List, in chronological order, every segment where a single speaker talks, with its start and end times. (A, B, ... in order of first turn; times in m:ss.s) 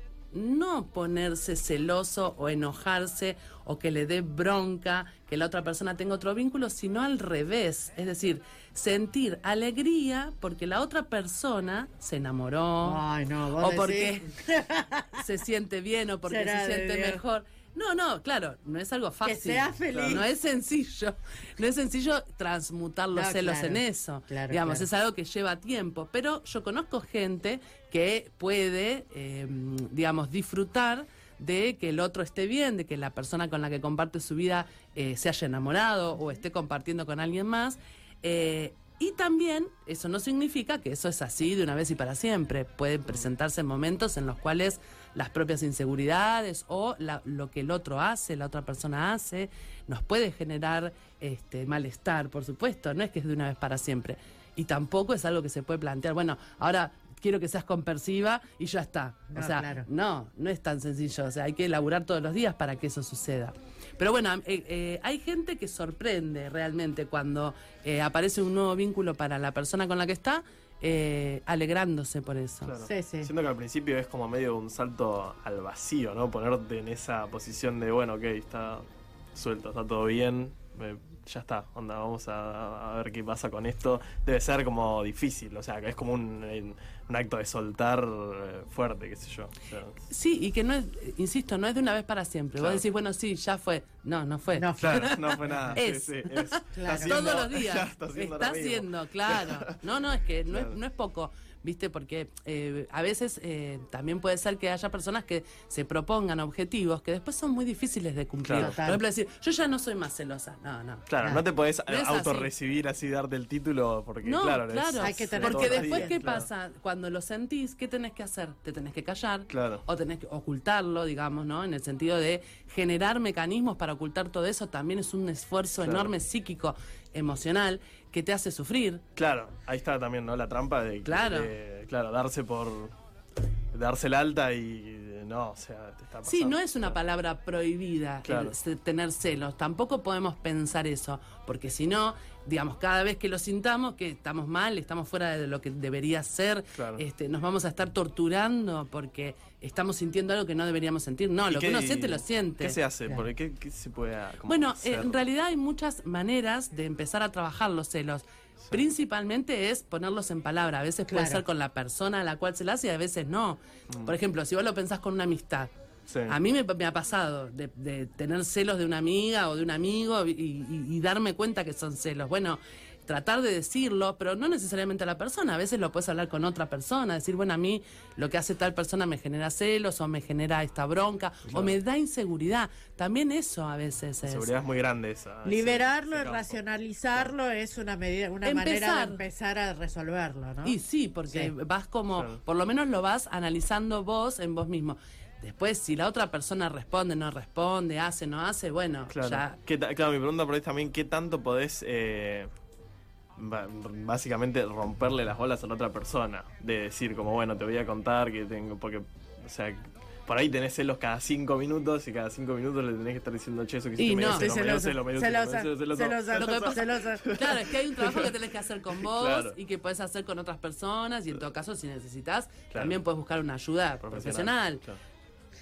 0:00.3-0:13.0 A
0:12.8-0:15.2 B
0:13.6-0:14.3 A
0:15.2-1:12.7 A
0:16.3-0:17.2 B
0:19.2-0:20.3 B
0:19.9-0:20.2 C
0:23.1-0:24.9 B
0:59.3-0:59.9 B
1:12.6-1:30.0 C
1:12.9-1:13.3 B
1:30.1-1:51.1 A
1:32.6-1:32.8 C
1:34.6-1:35.8 B
1:34.8-1:39.8 C
1:36.8-1:37.4 B
1:40.5-1:40.8 C
1:48.4-1:48.8 C
1:48.6-1:49.0 B
1:51.1-1:56.5 C
1:51.9-1:52.5 A
1:54.2-2:09.0 A
1:55.0-1:56.1 B
1:59.5-1:59.8 C
2:05.8-2:06.1 C
2:09.2-2:12.9 C
2:11.0-2:11.5 A
2:13.7-2:17.0 C
2:16.2-2:32.8 A
2:18.2-2:18.5 C
2:26.7-2:27.0 C
2:31.5-2:35.2 C
2:34.5-2:45.7 A
2:41.1-2:41.4 B
2:46.1-2:46.4 C
2:46.3-3:04.5 A
3:01.5-3:01.8 C
3:04.3-3:06.6 C
3:05.4-3:10.8 B
3:08.4-3:09.2 A
3:10.6-3:19.6 A
3:19.1-3:22.5 C
3:23.4-3:38.3 C
3:34.0-3:34.5 A
3:34.3-3:37.3 B
3:36.4-3:44.8 A
3:39.0-3:39.6 C
3:42.7-3:43.0 C
3:44.1-3:45.0 C